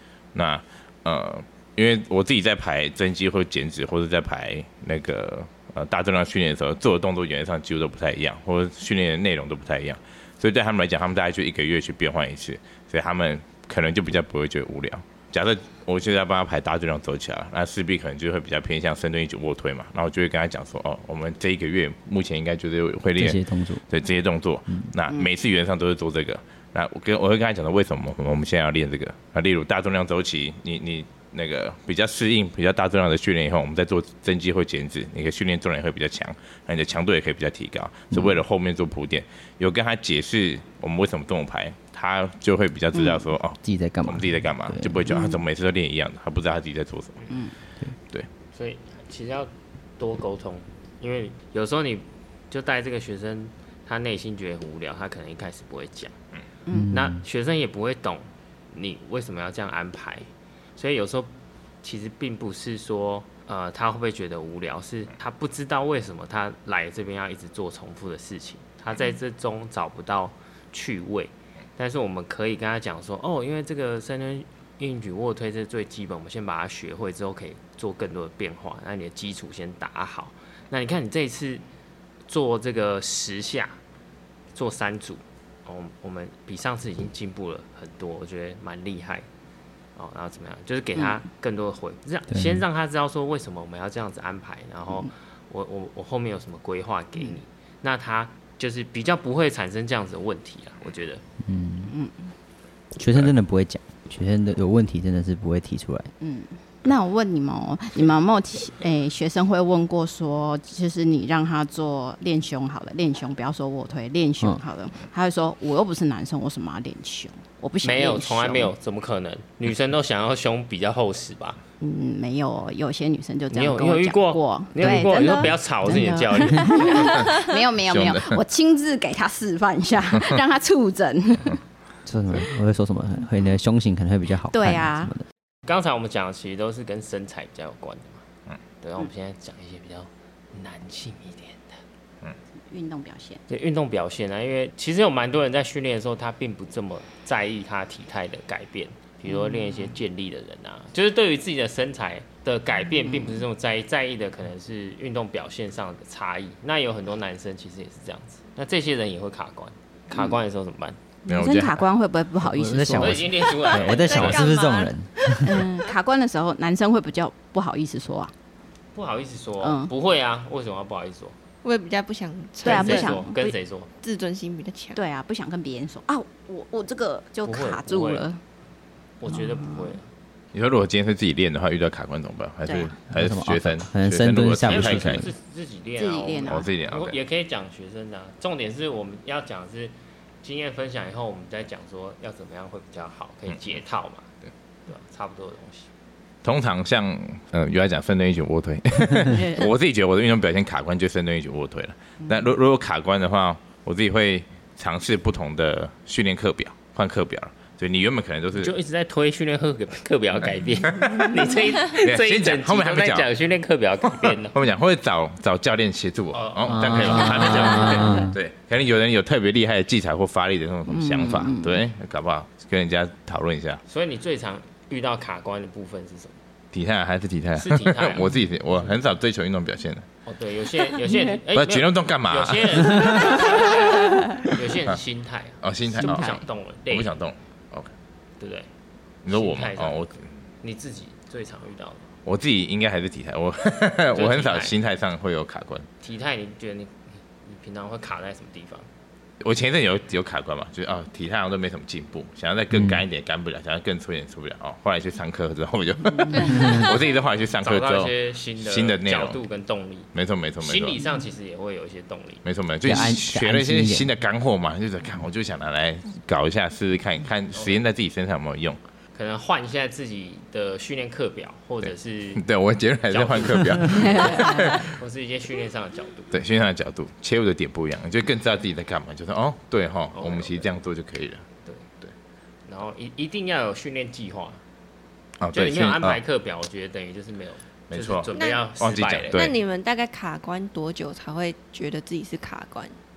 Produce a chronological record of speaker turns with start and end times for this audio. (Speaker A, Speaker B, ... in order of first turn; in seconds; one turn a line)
Speaker A: 0.3-47.2
Speaker B: 23.2-23.8
Speaker B: 38.1-38.4
Speaker B: 43.6-45.1
Speaker C: 45.1-45.4
Speaker D: 48.5-56.1
Speaker B: 56.7-57.2
Speaker D: 56.9-61.3
Speaker D: 61.8-81.6
Speaker D: 82.3-83.8
Speaker D: 84.5-89.2
Speaker D: 90.0-101.2
Speaker B: 92.3-92.6
Speaker B: 101.4-101.9
Speaker C: 101.9-102.1
Speaker B: 103.0-106.1
Speaker C: 106.2-118.7
Speaker D: 117.8-121.6
Speaker C: 121.8-131.6
Speaker D: 123.5-127.2
Speaker A: 127.9-128.4
Speaker B: 132.1-135.2
Speaker C: 134.5-135.1
Speaker D: 135.7-138.2
Speaker D: 138.8-141.8
Speaker C: 142.7-143.4
Speaker D: 143.5-161.0
Speaker C: 149.3-149.9
Speaker C: 153.1-153.4
Speaker C: 161.2-163.2
Speaker A: 161.3-161.8
Speaker B: 162.4-165.6
Speaker D: 162.9-164.3
Speaker E: 163.6-164.9
Speaker C: 165.4-168.3
Speaker D: 168.9-171.3
Speaker C: 169.6-169.9
Speaker E: 171.6-173.2
Speaker C: 172.6-173.5
Speaker D: 172.6-173.9
Speaker E: 174.0-175.0
Speaker C: 174.9-178.4
Speaker D: 177.4-178.2
Speaker D: 179.2-180.1
Speaker C: 179.3-179.9
Speaker A: 180.5-185.3
Speaker C: 182.6-182.9
Speaker B: 183.1-185.3
Speaker D: 184.6-194.3
Speaker C: 186.0-186.7
Speaker A: 186.4-187.2
Speaker D: 194.9-195.9
Speaker A: 196.4-208.7
Speaker C: 199.4-199.7
Speaker D: 208.5-214.5
Speaker A: 210.8-213.3
Speaker A: 214.1-223.8
Speaker D: 216.3-218.2
Speaker B: 216.7-218.3
Speaker C: 220.9-221.8
Speaker D: 223.9-226.3
Speaker A: 226.7-230.1
Speaker D: 227.6-228.3
Speaker D: 230.2-237.1
Speaker A: 231.5-233.5
Speaker A: 235.6-236.3
Speaker A: 236.9-237.9
Speaker D: 238.4-238.7
Speaker A: 239.2-240.2
Speaker D: 239.3-240.0
Speaker D: 240.6-242.1
Speaker A: 242.2-245.9
Speaker D: 244.1-244.7
Speaker D: 246.0-246.9
Speaker D: 247.4-248.8
Speaker A: 249.4-259.4
Speaker B: 252.7-253.0
Speaker D: 257.6-262.4
Speaker A: 260.1-261.0
Speaker A: 262.4-268.8
Speaker B: 262.8-264.1
Speaker D: 269.1-272.4
Speaker A: 271.8-275.0
Speaker D: 273.1-276.3
Speaker C: 274.3-274.7
Speaker A: 276.3-281.4
Speaker D: 280.1-280.7
Speaker D: 282.6-284.6
Speaker A: 285.4-286.2
Speaker D: 285.5-289.5
Speaker A: 287.9-289.6
Speaker E: 288.3-288.7
Speaker E: 289.3-292.9